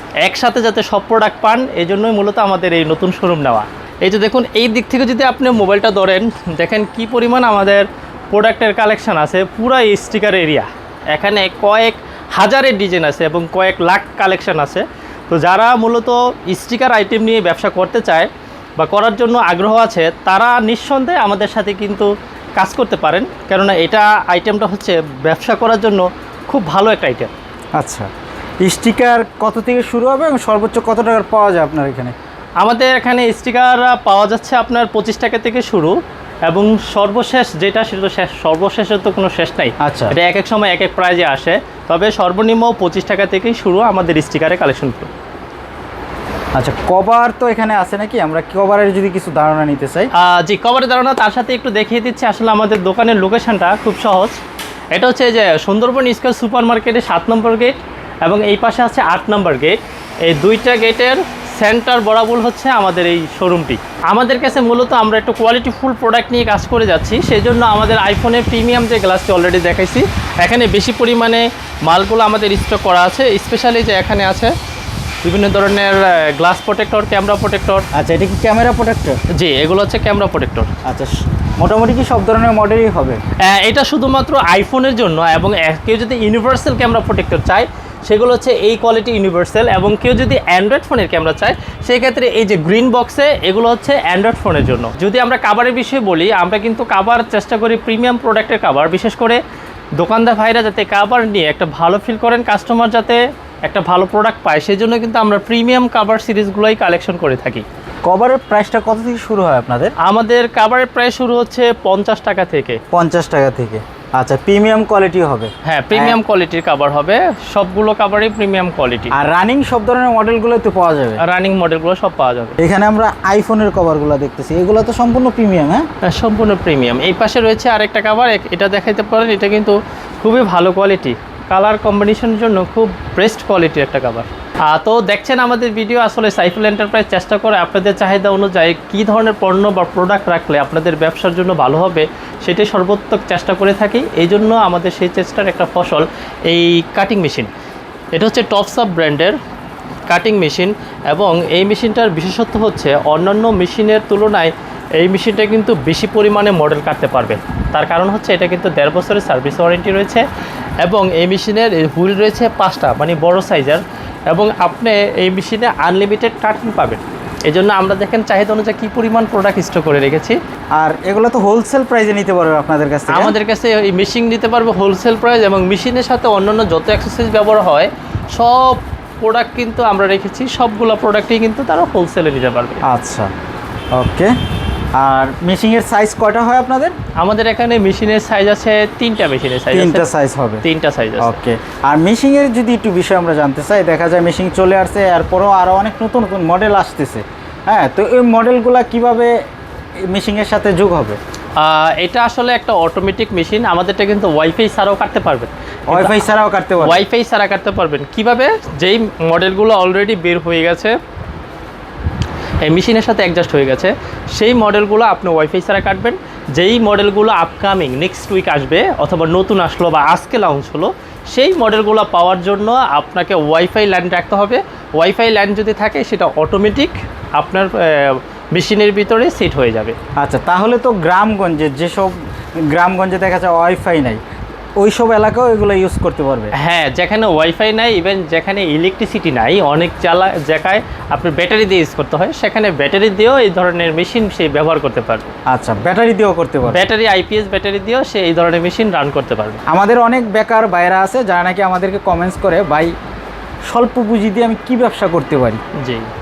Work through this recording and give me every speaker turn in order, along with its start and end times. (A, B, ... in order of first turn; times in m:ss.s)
0:00.2-0:27.3 A
0:27.8-0:28.1 B
0:28.6-0:32.1 B
0:32.6-0:45.1 A
0:39.8-0:40.1 B
0:46.6-0:50.1 B
0:50.1-0:54.4 A
0:54.9-1:14.5 A
1:15.2-1:17.8 A
1:17.9-1:19.2 B
1:19.3-1:20.7 A
1:20.8-1:23.2 B
1:23.4-1:39.4 A
1:40.0-1:47.6 A
1:48.0-1:49.9 B
1:50.0-1:52.8 A
1:52.9-1:56.2 B
1:55.6-1:59.1 A
1:59.1-2:01.2 B
2:01.2-2:02.6 A
2:02.6-2:05.8 B
2:06.0-2:27.5 A
2:28.2-2:29.4 A
2:30.1-2:40.2 A
2:40.8-2:50.4 A
2:50.8-2:53.3 B
2:53.1-3:02.8 A
3:02.8-3:03.3 B
3:03.9-3:04.3 B
3:05.0-3:06.9 B
3:07.2-3:10.0 A
3:09.7-3:10.6 B
3:10.6-3:11.4 A
3:11.2-3:19.3 B
3:20.1-3:21.2 B
3:21.6-3:26.2 A
3:25.9-3:27.0 B
3:26.8-3:31.0 A
3:32.6-3:50.0 A
3:50.2-3:54.2 B
3:54.8-3:56.5 B
3:56.6-4:05.3 A
4:05.5-4:06.8 B
4:06.7-4:09.6 A
4:09.7-4:12.9 B
4:13.7-4:15.6 B
4:15.7-4:16.1 A